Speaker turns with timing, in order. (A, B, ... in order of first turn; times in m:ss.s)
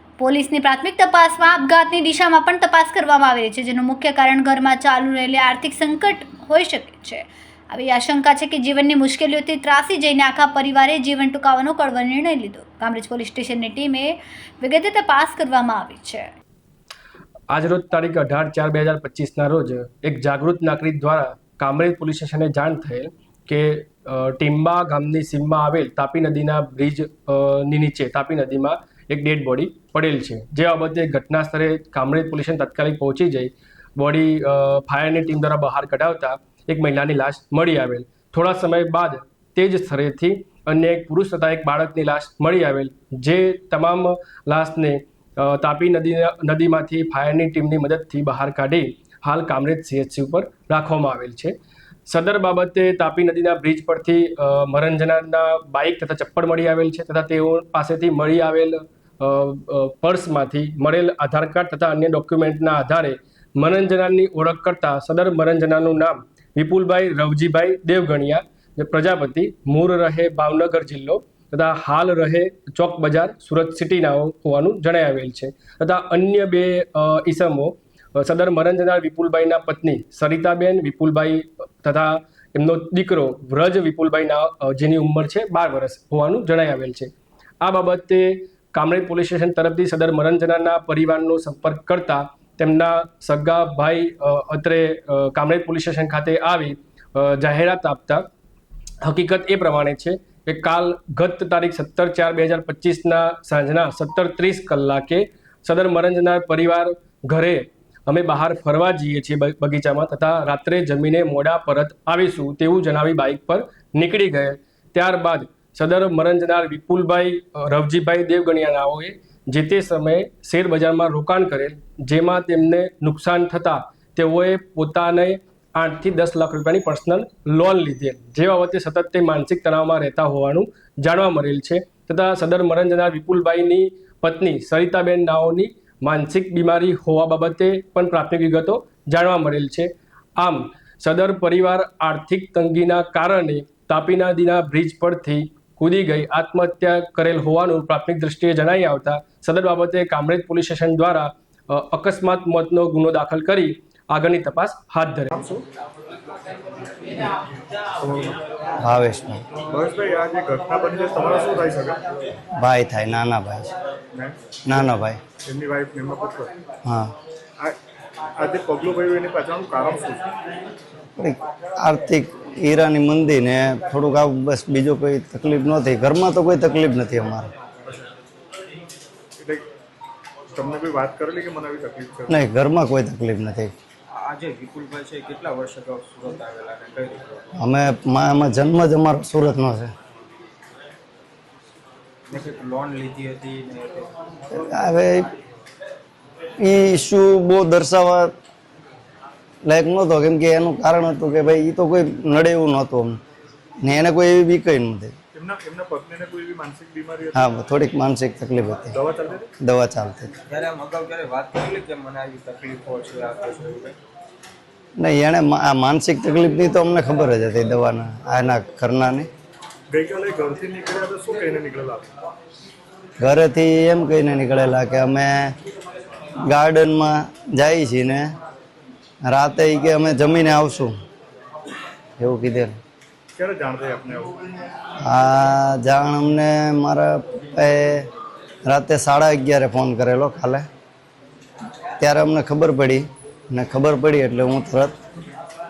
0:00.2-0:16.3 A
0:17.5-0:51.5 B
0:52.1-1:38.3 B
1:39.0-2:35.3 B
2:35.3-2:35.6 C
2:38.0-2:38.4 C
2:38.8-2:39.4 D
2:39.7-2:42.1 C
2:42.6-2:43.7 D
2:44.1-2:44.9 C
2:44.7-2:45.2 D
2:45.4-2:46.5 C
2:46.8-2:47.1 D
2:48.4-2:50.3 C
2:51.2-2:57.5 D
2:59.4-2:59.6 C
3:00.6-3:02.4 C
3:02.3-3:03.7 D
3:04.1-3:07.5 E
3:07.6-3:09.9 D
3:12.3-3:14.2 E
3:14.5-3:15.3 D
3:16.6-3:18.3 D
3:19.7-3:23.2 D
3:23.8-3:25.1 D
3:25.3-3:27.4 C
3:27.4-3:29.0 D
3:28.9-3:29.5 C
3:29.6-3:30.3 D
3:30.5-3:34.0 E
3:35.0-3:39.3 D
3:39.9-3:42.1 C
3:43.2-3:45.5 D
3:46.5-3:48.3 D
3:49.3-3:51.0 D
3:52.2-3:52.8 D
3:53.4-3:54.4 C
3:55.0-3:58.1 D
3:58.7-4:00.6 D
4:02.0-4:04.9 D